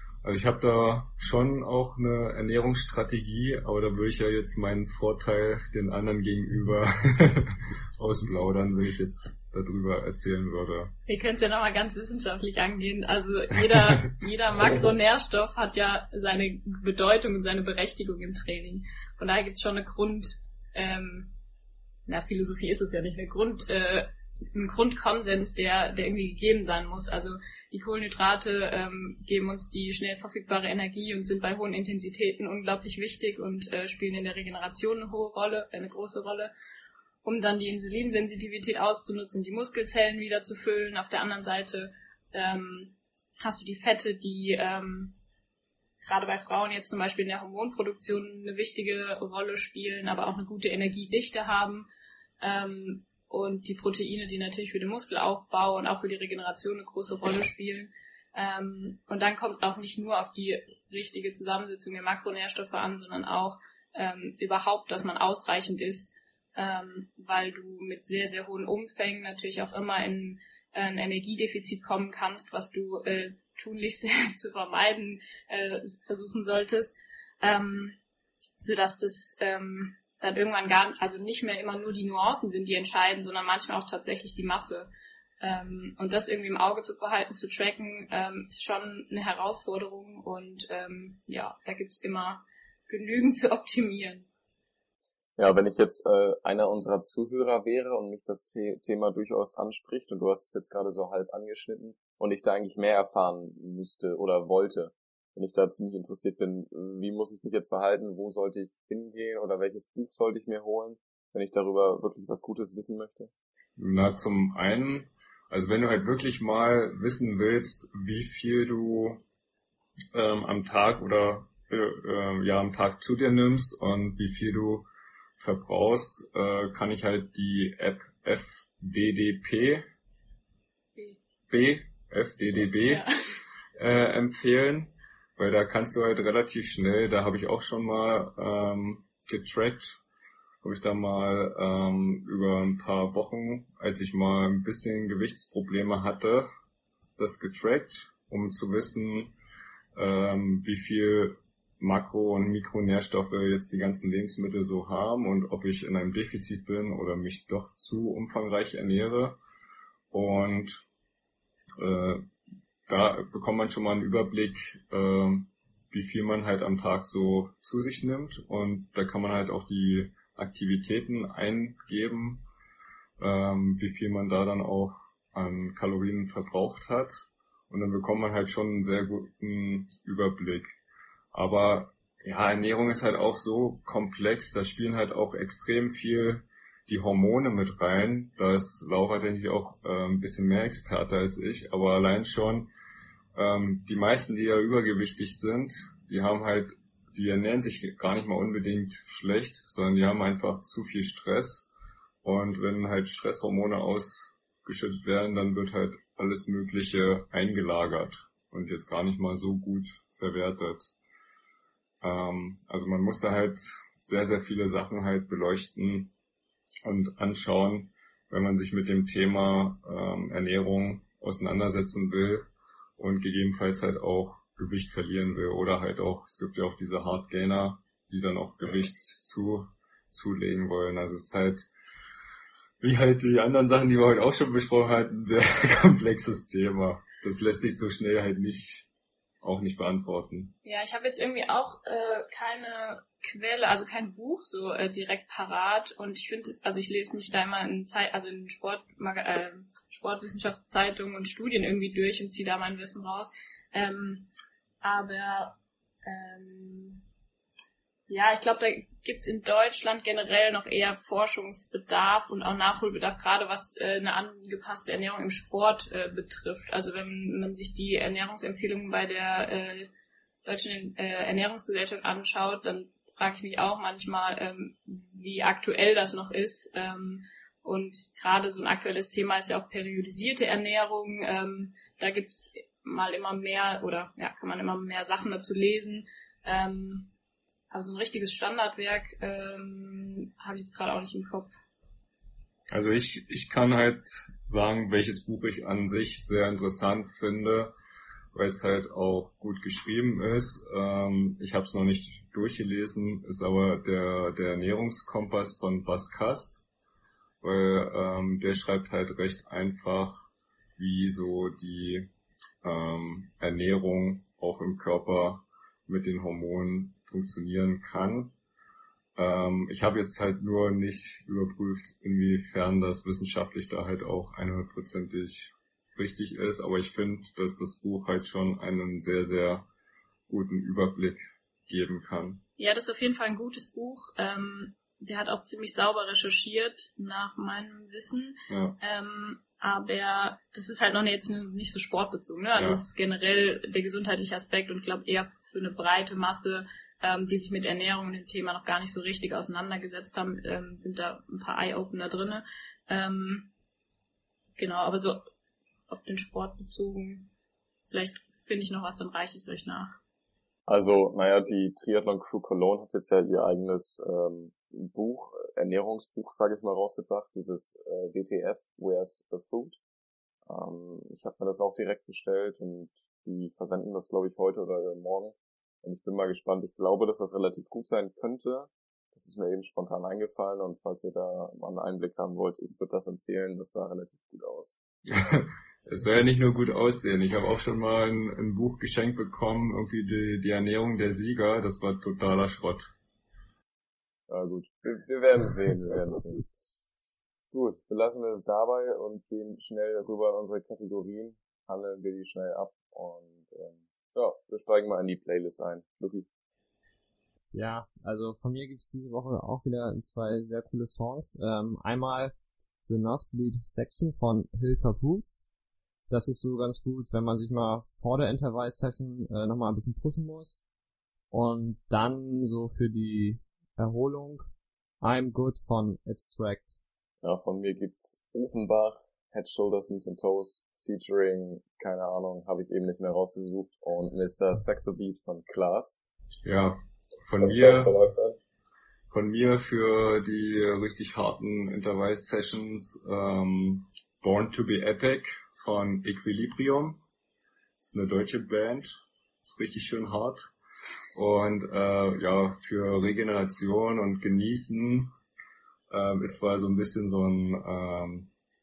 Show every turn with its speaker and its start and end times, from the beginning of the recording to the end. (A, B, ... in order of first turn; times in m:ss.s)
0:00.2-0:10.9 A
0:11.0-0:21.3 B
0:22.1-0:36.5 B
0:37.2-0:45.2 B
0:46.0-0:51.8 B
0:52.4-1:18.0 B
1:18.6-1:24.9 B
1:25.4-1:34.3 B
1:35.4-1:53.3 C
1:53.8-1:59.2 A
2:00.1-2:04.8 A
2:05.4-2:09.8 A
2:11.5-2:13.0 A
2:12.8-2:13.1 B
2:13.8-2:20.0 A
2:20.6-2:26.5 A
2:27.2-2:29.3 A
2:29.9-2:39.4 A
2:40.1-2:40.8 A
2:41.8-2:42.3 A
2:42.9-2:52.4 A
2:53.2-3:00.8 A
3:01.3-3:12.7 A
3:13.3-3:21.7 A
3:22.2-3:30.9 A
3:32.0-3:36.1 A
3:36.8-3:42.4 A
3:43.0-3:51.7 A
3:52.8-3:58.9 A
3:59.4-4:00.5 A
4:00.6-4:14.3 B
4:14.8-4:17.0 B
4:18.1-4:29.9 B
4:30.4-4:47.1 B
4:47.7-4:51.5 B
4:52.7-4:57.7 A
4:58.3-5:06.6 A
5:07.4-5:12.1 A
5:12.6-5:18.3 A
5:19.2-5:29.7 A
5:30.3-5:32.4 A
5:32.6-5:53.5 B
5:38.5-5:38.8 A
5:42.6-5:42.8 A
5:54.6-5:55.2 B
5:55.9-5:57.3 B
5:57.9-6:00.0 B
6:00.7-6:09.8 C
6:10.4-6:24.8 C
6:25.1-6:32.9 A
6:34.3-6:36.5 C
6:37.5-6:46.3 C
6:47.5-6:55.5 D
6:56.1-7:00.6 D
7:01.3-7:04.4 D
7:05.0-7:06.8 D
7:07.2-7:16.0 C
7:16.4-7:17.9 A
7:17.4-7:18.4 C
7:19.1-7:27.0 A
7:27.8-7:30.5 A
7:31.1-7:35.1 A
7:35.9-7:38.3 A